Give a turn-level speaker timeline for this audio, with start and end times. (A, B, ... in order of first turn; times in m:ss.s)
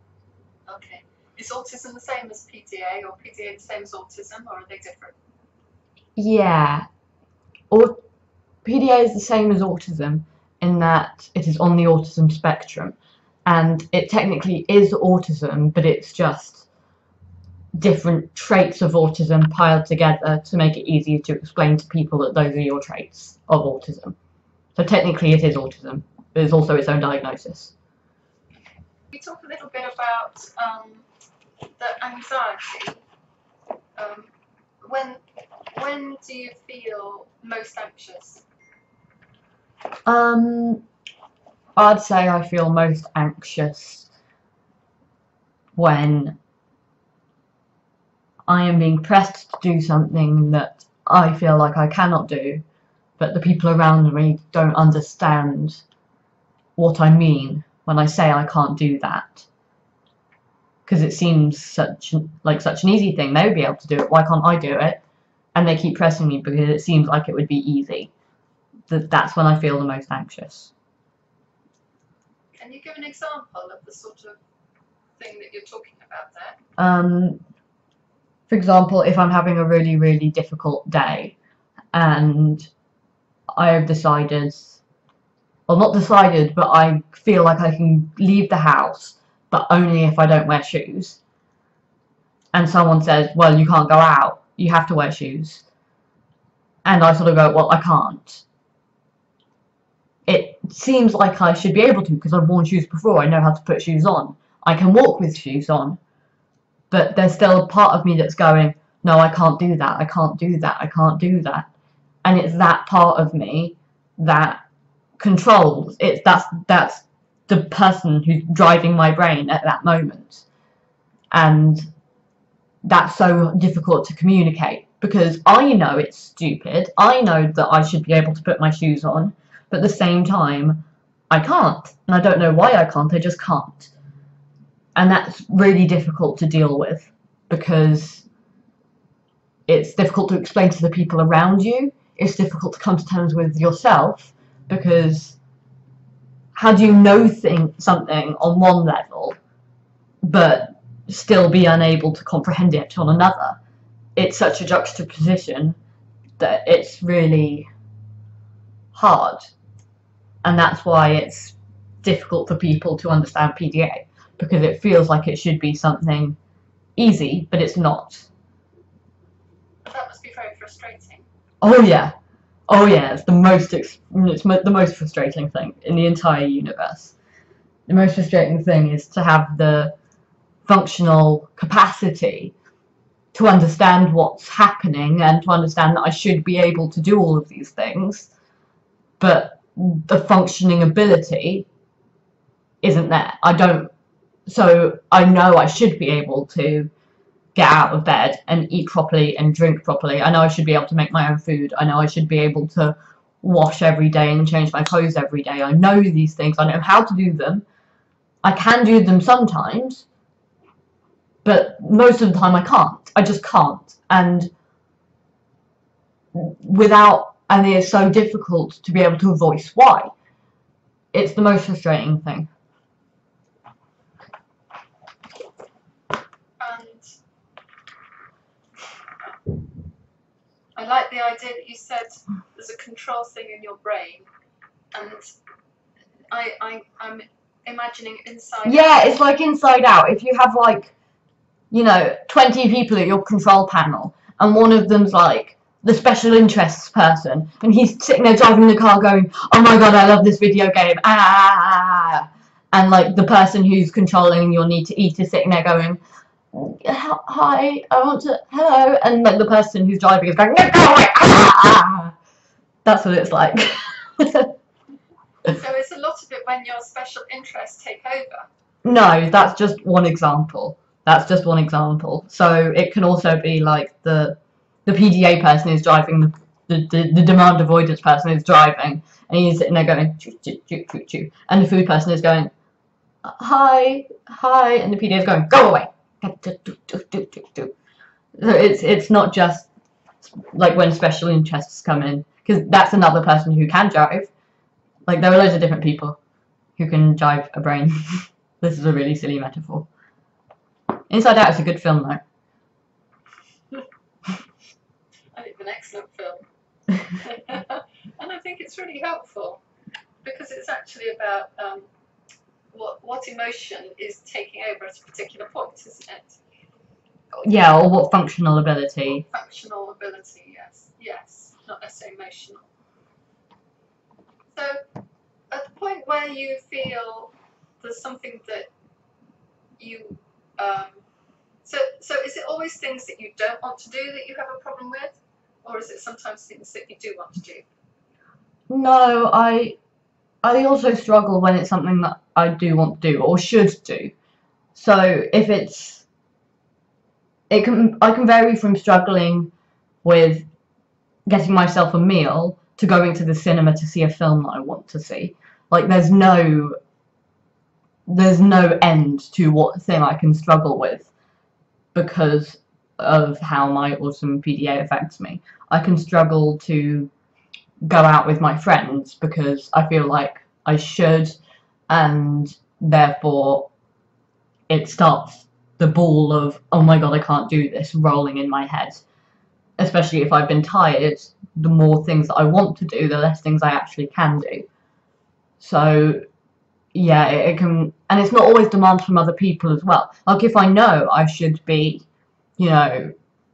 0:00.7-0:05.2 A
0:06.2-0:06.9 B
0:07.7-0:08.0 B
0:08.6-0:16.7 B
0:17.8-0:24.2 B
0:24.8-0:27.7 B
0:29.1-0:31.1 A
0:31.8-0:33.0 A
0:34.0-0:34.3 A
0:34.8-0:35.2 A
0:35.7-0:38.4 A
0:40.1-0:40.8 B
0:41.8-0:44.1 B
0:45.8-0:46.4 B
0:48.5-0:52.6 B
0:53.2-0:55.8 B
0:56.8-0:59.5 B
1:00.9-1:05.0 B
1:05.6-1:08.1 B
1:08.9-1:10.7 B
1:12.6-1:14.4 A
1:15.2-1:16.6 A
1:16.8-1:17.4 B
1:18.5-1:21.4 B
1:21.9-1:22.7 B
1:23.6-1:24.8 B
1:25.7-1:31.2 B
1:32.5-1:35.6 B
1:36.8-1:38.4 B
1:40.3-1:46.0 B
1:46.9-1:51.7 B
1:52.2-1:54.6 B
1:55.2-2:00.5 B
2:01.3-2:01.9 B
2:02.8-2:13.9 B
2:15.0-2:18.2 B
2:19.7-2:25.4 B
2:26.6-2:29.4 B
2:30.2-2:33.6 B
2:34.2-2:35.8 B
2:36.4-2:37.7 B
2:38.9-2:39.5 B
2:40.4-2:46.4 B
2:47.0-2:48.3 B
2:49.9-2:51.3 A
2:51.6-2:52.1 B
2:52.7-2:57.2 B
2:57.9-2:59.9 B
3:00.7-3:02.5 B
3:03.3-3:08.3 B
3:09.2-3:11.7 B
3:12.8-3:13.9 B
3:14.5-3:16.9 B
3:17.6-3:27.6 B
3:28.4-3:30.1 B
3:31.4-3:34.5 B
3:36.4-3:40.1 B
3:41.1-3:42.5 B
3:46.6-3:47.0 A
3:50.8-3:54.3 A
3:54.9-3:55.2 A
3:56.3-3:59.2 A
3:58.6-4:00.9 B
4:01.7-4:16.0 B
4:16.5-4:22.1 B
4:22.8-4:24.5 B
4:25.5-4:28.5 A
4:28.8-4:42.5 B
4:43.2-4:47.7 B
4:48.4-4:49.7 B
4:50.2-4:54.3 B
4:55.1-4:56.2 B
4:56.8-4:59.9 B
5:01.1-5:02.2 B
5:05.3-5:06.4 A
5:07.2-5:09.6 A
5:10.2-5:11.9 A
5:12.7-5:16.4 A
5:17.4-5:19.3 B
5:19.3-5:22.7 A
5:24.5-5:24.8 A
5:25.5-5:28.7 A
5:29.8-5:31.0 A
5:31.6-5:37.6 A
5:38.7-5:39.8 B
5:40.4-5:44.1 B
5:44.8-5:46.1 B
5:47.5-5:49.5 B
5:50.0-5:50.5 B
5:51.3-5:56.8 B
5:58.1-6:01.1 B
6:02.0-6:07.1 B
6:07.8-6:11.4 B
6:11.9-6:13.7 B
6:14.7-6:19.0 B
6:19.8-6:24.7 B
6:25.6-6:26.2 B
6:26.9-6:32.0 B
6:32.6-6:33.1 B